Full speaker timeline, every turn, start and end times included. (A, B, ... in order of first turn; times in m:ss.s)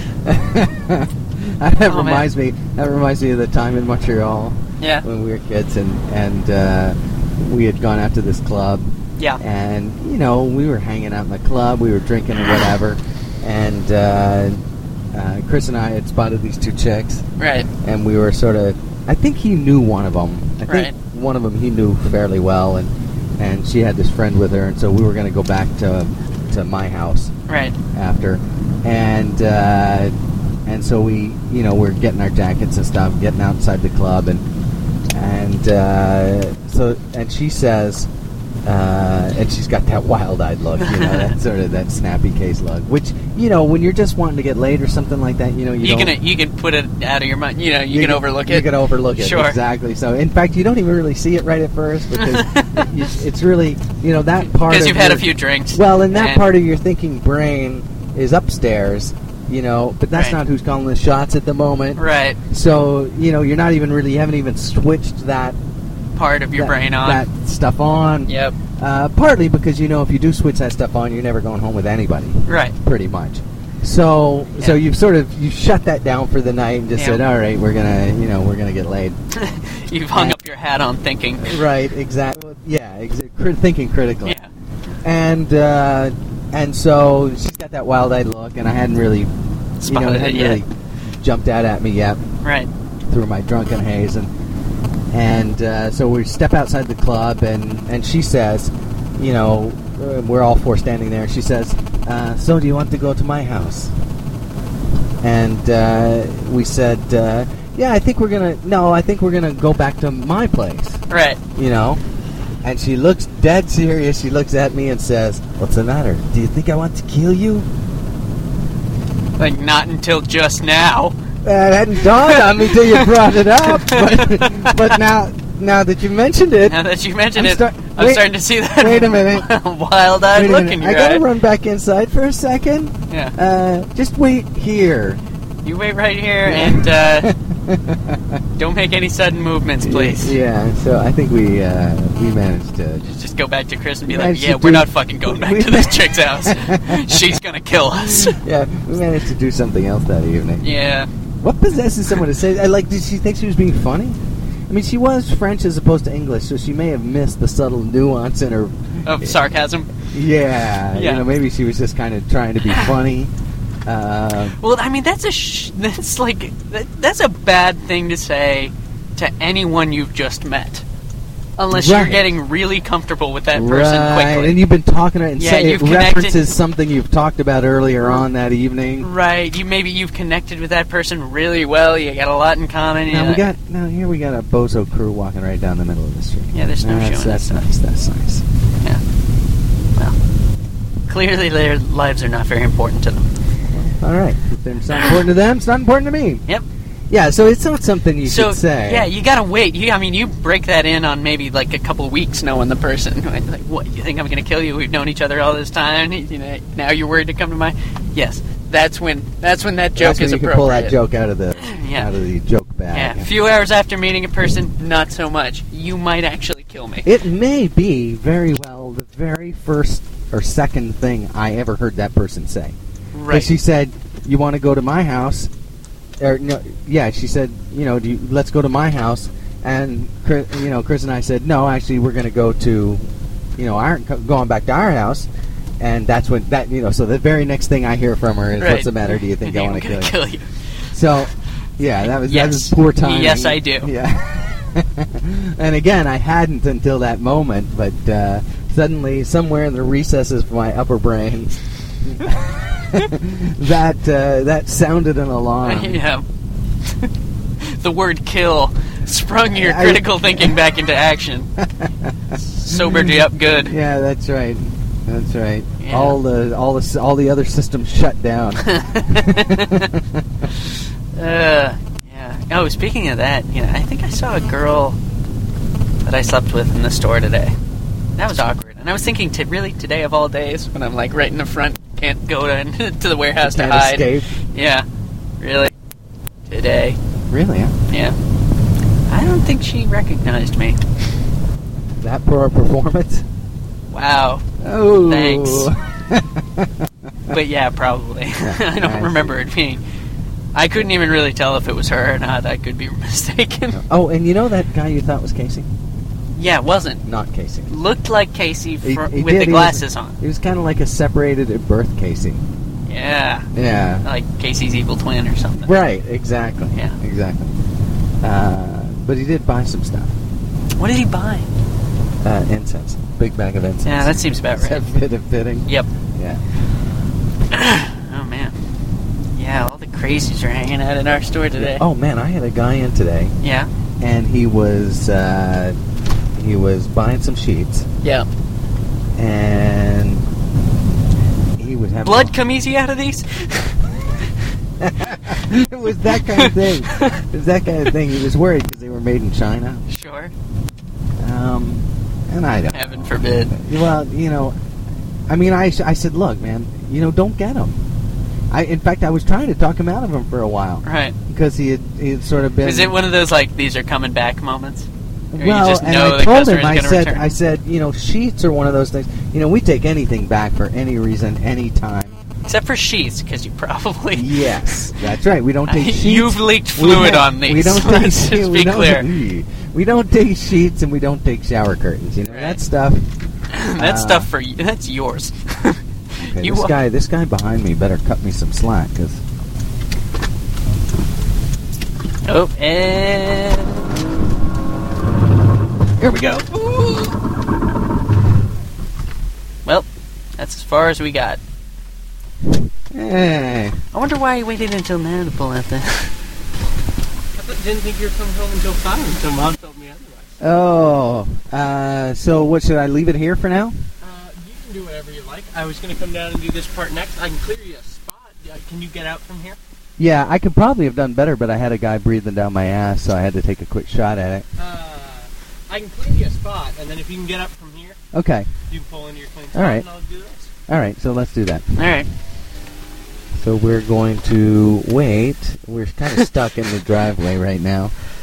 0:00.2-0:08.9 A
0:01.9-0:02.3 B
0:04.8-0:05.0 B
0:09.4-0:27.3 A
0:17.4-0:17.7 B
0:20.7-0:21.0 B
0:27.5-0:27.8 B
0:27.9-0:30.1 A
0:30.7-0:34.4 A
0:35.1-0:38.1 A
0:38.6-0:46.2 A
0:40.8-0:41.3 B
0:45.8-0:49.6 B
0:47.9-1:05.6 A
0:52.2-0:52.9 B
0:54.6-0:56.5 B
1:02.0-1:02.4 B
1:06.2-1:07.2 B
1:06.6-1:19.2 A
1:08.3-1:08.6 B
1:12.5-1:12.8 B
1:17.0-1:17.2 B
1:19.4-1:21.6 B
1:21.4-1:24.4 A
1:25.0-1:29.3 A
1:29.8-1:30.6 B
1:29.9-1:32.2 A
1:32.4-1:32.7 B
1:33.1-1:34.3 A
1:35.1-1:43.9 A
1:45.2-1:51.0 A
1:51.1-1:51.4 B
1:51.6-1:52.0 A
1:52.6-1:57.7 A
1:59.4-2:01.2 B
2:01.4-2:06.8 A
2:02.0-2:05.0 B
2:06.6-2:11.2 B
2:07.3-2:09.5 A
2:10.3-2:15.2 A
2:13.1-2:13.4 B
2:15.6-2:17.3 B
2:16.4-2:18.4 A
2:18.6-2:20.4 B
2:19.8-2:23.0 A
2:23.0-2:28.4 B
2:24.1-2:27.4 A
2:28.0-2:30.7 A
2:30.6-2:31.1 B
2:31.4-2:39.4 A
2:39.0-2:39.9 B
2:40.1-2:43.3 A
2:40.9-2:41.3 B
2:43.9-2:44.6 A
2:44.6-2:50.8 B
2:51.6-2:54.6 B
2:51.7-2:52.3 A
2:53.5-2:59.1 A
2:55.4-2:56.4 B
2:59.0-3:03.5 B
3:03.1-3:08.4 A
3:06.5-3:07.6 B
3:11.1-3:13.3 B
3:13.7-3:16.4 A
3:17.1-3:19.1 A
3:18.2-3:31.0 B
3:30.0-3:33.3 A
3:31.6-3:32.1 B
3:32.9-3:37.1 B
3:37.0-3:42.8 A
3:43.1-3:43.6 B
3:43.3-3:45.5 A
3:46.2-3:53.0 A
3:53.6-3:55.3 A
3:55.8-4:00.2 A
3:58.6-4:00.5 B
4:00.9-4:16.0 A
4:02.0-4:03.9 B
4:15.6-4:16.3 B
4:17.0-4:21.5 B
4:19.5-4:20.6 A
4:21.6-4:22.1 A
4:22.4-4:23.8 B
4:22.7-4:30.2 A
4:25.8-4:26.2 B
4:28.6-4:29.9 B
4:30.6-4:35.0 B
4:36.1-4:37.6 B
4:38.2-4:44.9 B
4:43.4-4:44.4 A
4:45.4-4:45.7 B
4:46.5-4:47.0 B
4:47.3-4:47.8 A
4:47.9-4:48.2 B
4:49.1-4:50.8 B
4:52.0-4:53.3 A
4:53.9-4:54.5 B
4:54.6-4:56.8 A
4:55.1-4:55.7 B
4:57.3-4:59.8 B
4:58.4-4:59.4 A
5:00.5-5:03.8 B
5:03.7-5:05.7 A
5:06.4-5:07.0 B
5:07.0-5:07.7 A
5:07.7-5:10.2 B
5:08.8-5:12.4 A
5:12.9-5:13.5 B
5:13.5-5:14.0 A
5:14.0-5:15.7 B
5:15.6-5:17.6 A
5:18.2-5:20.2 A
5:20.8-5:21.5 B
5:22.2-5:26.4 A
5:23.9-5:24.8 B
5:27.5-5:28.6 B
5:29.3-5:31.8 B
5:31.6-5:33.4 A
5:33.4-5:33.7 B
5:34.0-5:35.8 A
5:36.4-5:37.9 A
5:39.2-5:40.3 A
5:41.6-5:42.3 A
5:42.0-5:43.7 B
5:44.8-5:49.8 A
5:46.0-5:47.2 B
5:49.9-5:50.3 B
5:51.2-5:54.6 A
5:52.7-5:53.5 B
5:55.3-5:57.8 A
5:58.5-6:03.0 A
6:00.8-6:01.2 B
6:02.6-6:07.3 B
6:05.3-6:12.2 A
6:12.5-6:14.9 B
6:14.1-6:23.1 A
6:15.7-6:19.1 B
6:22.3-6:22.6 B
6:23.5-6:26.7 B
6:23.8-6:24.3 A
6:26.2-6:29.2 A
6:32.3-6:34.0 B
6:36.0-6:37.2 A
6:40.4-6:41.4 B
6:42.9-6:43.8 A
6:43.9-6:46.1 B
6:47.4-6:50.4 C
6:50.4-6:53.8 A
6:54.0-6:59.6 C
7:00.0-7:04.5 A
7:04.6-7:08.0 C
7:08.1-7:08.5 A
7:08.7-7:10.5 C
7:09.5-7:09.8 A
7:10.7-7:11.8 A
7:11.8-7:12.1 B
7:13.3-7:17.9 A